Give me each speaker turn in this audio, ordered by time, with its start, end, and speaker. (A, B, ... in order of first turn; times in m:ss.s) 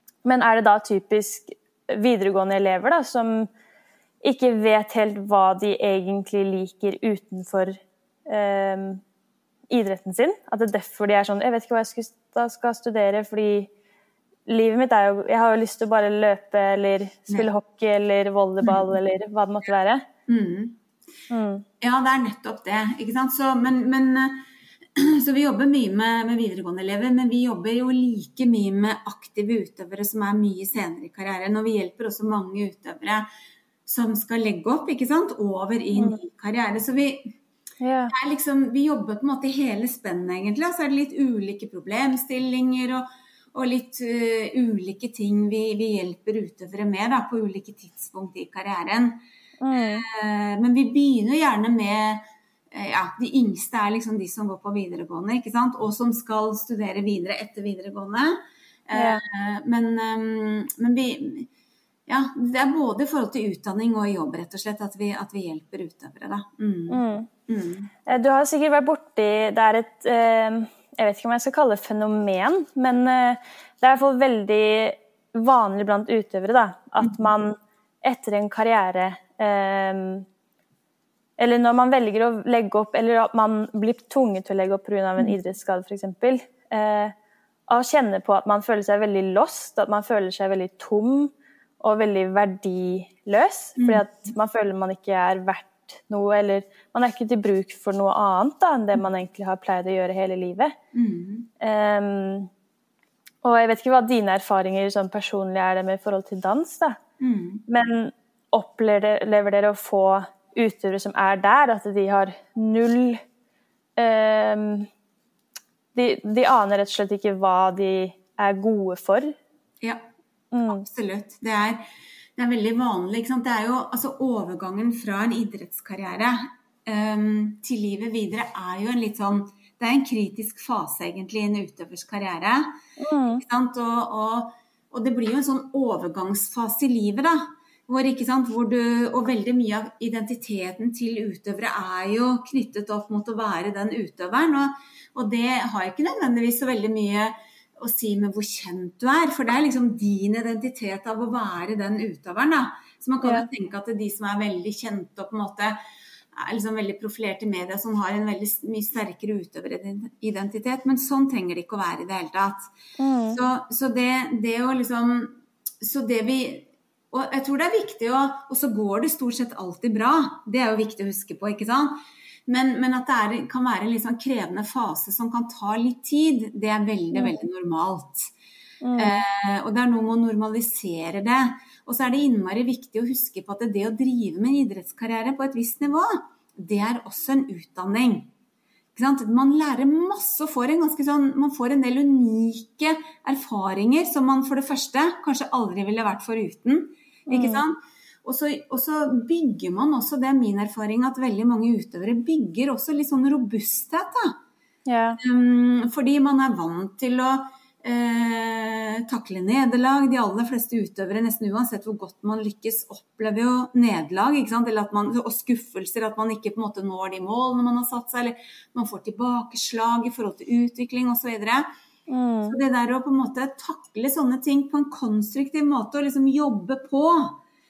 0:00.2-0:03.5 A
0:04.2-0:09.0 A
0:09.7-0:13.7 A
0:14.5-0:20.0 A
0:20.3-0:20.8 B
0:21.3-0:21.6 A
0:21.8-0:33.2 B
0:33.8-0:37.3 B
0:37.8-0:38.1 A
0:38.1-0:49.2 B
0:49.6-0:50.0 A
0:49.7-1:01.5 B
0:58.9-0:59.2 A
1:02.1-1:07.9 B
1:06.9-1:07.3 A
1:08.0-1:20.2 A
1:17.0-1:17.2 B
1:21.4-1:27.1 A
1:27.7-1:40.8 A
1:33.8-1:34.0 B
1:40.9-1:41.5 B
1:41.6-1:42.5 A
1:43.4-1:47.0 A
1:47.2-1:47.6 B
1:47.7-1:53.2 A
1:54.0-1:54.9 A
1:55.9-1:59.3 A
2:00.5-2:00.8 A
2:00.7-2:01.8 B
2:02.4-2:12.7 B
2:13.0-2:13.4 A
2:13.2-2:35.8 B
2:33.2-2:33.5 A
2:36.3-2:42.7 B
2:43.0-2:43.4 A
2:43.3-2:58.3 B
2:57.1-2:57.4 A
2:58.8-2:59.2 A
2:59.0-3:08.3 B
3:08.9-3:24.4 B
3:17.3-3:17.6 A
3:24.9-3:25.2 A
3:25.2-3:41.7 B
3:42.1-3:42.6 A
3:42.5-3:47.4 B